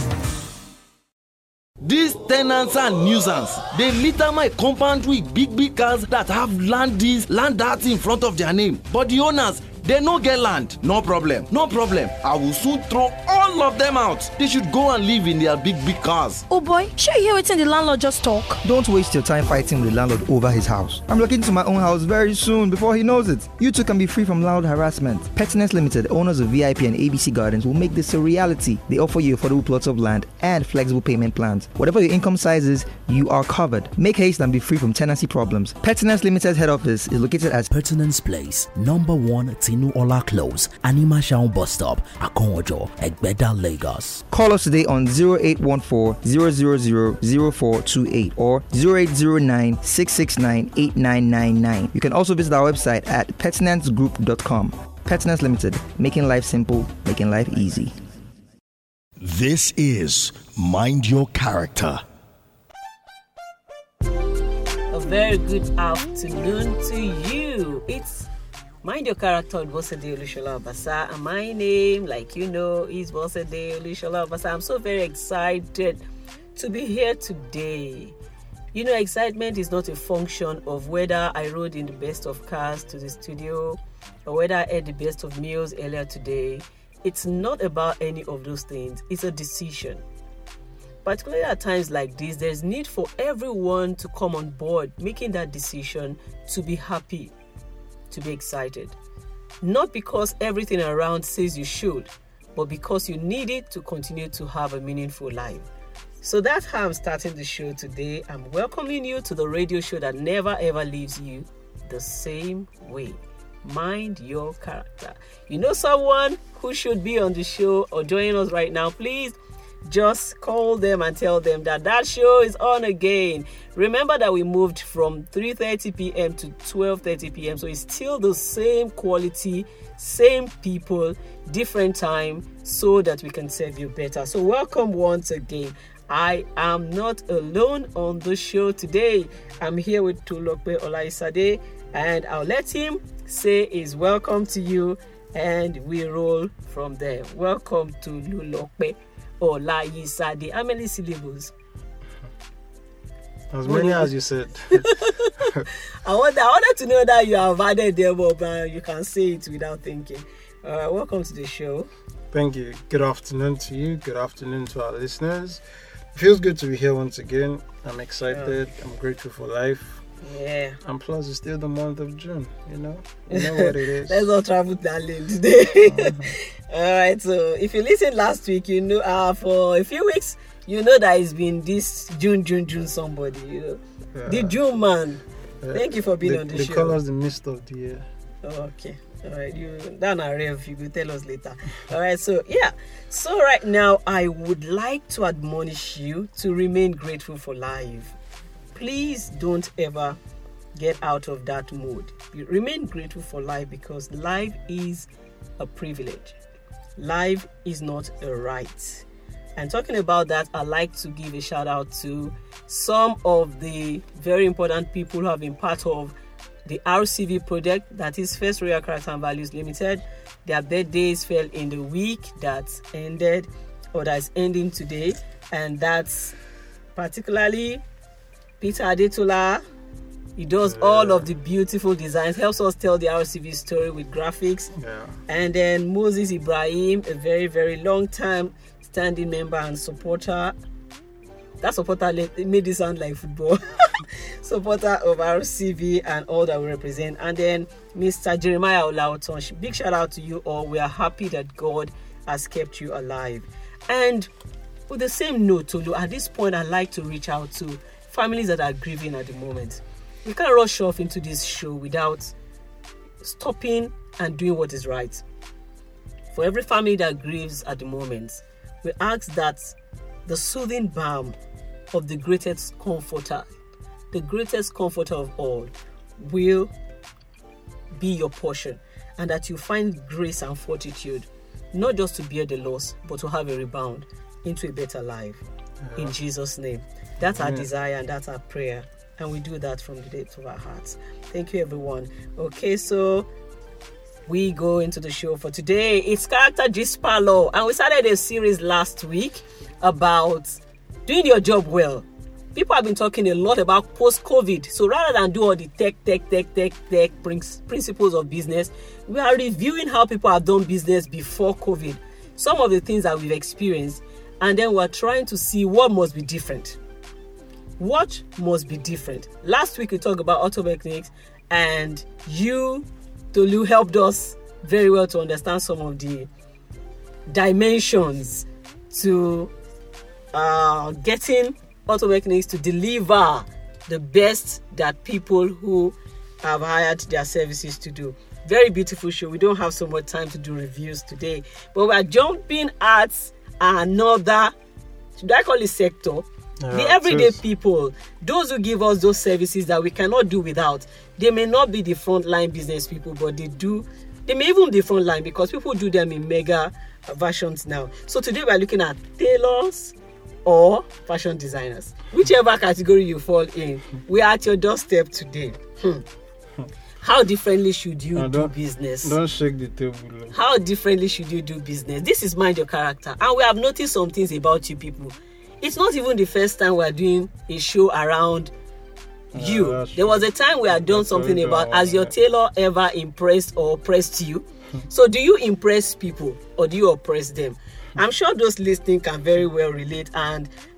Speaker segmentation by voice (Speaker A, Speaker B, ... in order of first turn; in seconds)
Speaker A: 1.8-16.4
Speaker B: 16.5-18.6
Speaker C: 18.6-37.7, 44.3-57.9
Speaker D: 37.7-44.2
Speaker E: 59.2-62.0
Speaker F: 64.9-68.3, 68.8-76.0, 76.5-78.1, 78.7-90.0, 91.0-97.3, 98.1-98.9, 99.6-105.7, 106.2-151.5, 153.6-154.1, 154.8-155.4, 156.0-161.9, 168.3-168.5, 170.2-170.8, 173.3-185.2, 185.7-187.0, 188.4-198.1, 198.7-200.2, 200.7-205.1, 205.6-206.3, 207.0-209.0, 209.6-216.1, 216.7-226.3, 226.9-227.8, 228.6-229.6, 230.4-234.7, 235.3-240.5, 241.6-254.3, 254.9-262.3, 263.2-265.2, 266.3-269.7, 270.2-271.4, 271.9-273.4, 274.1-276.7, 278.0-285.4, 285.9-293.3, 294.3-316.8, 317.8-326.3, 327.3-329.5, 330.3-344.5, 345.2-366.0, 367.0-369.1, 370.3-378.5, 379.3-390.5
Speaker G: 153.5-155.6, 162.3-165.6, 166.1-170.0, 170.8-174.3, 175.8-176.3, 184.1-184.6, 185.6-188.1, 230.6-231.3, 234.8-235.1, 285.9-286.1, 287.2-287.6, 346.6-347.4, 368.1-370.3, 379.3-382.1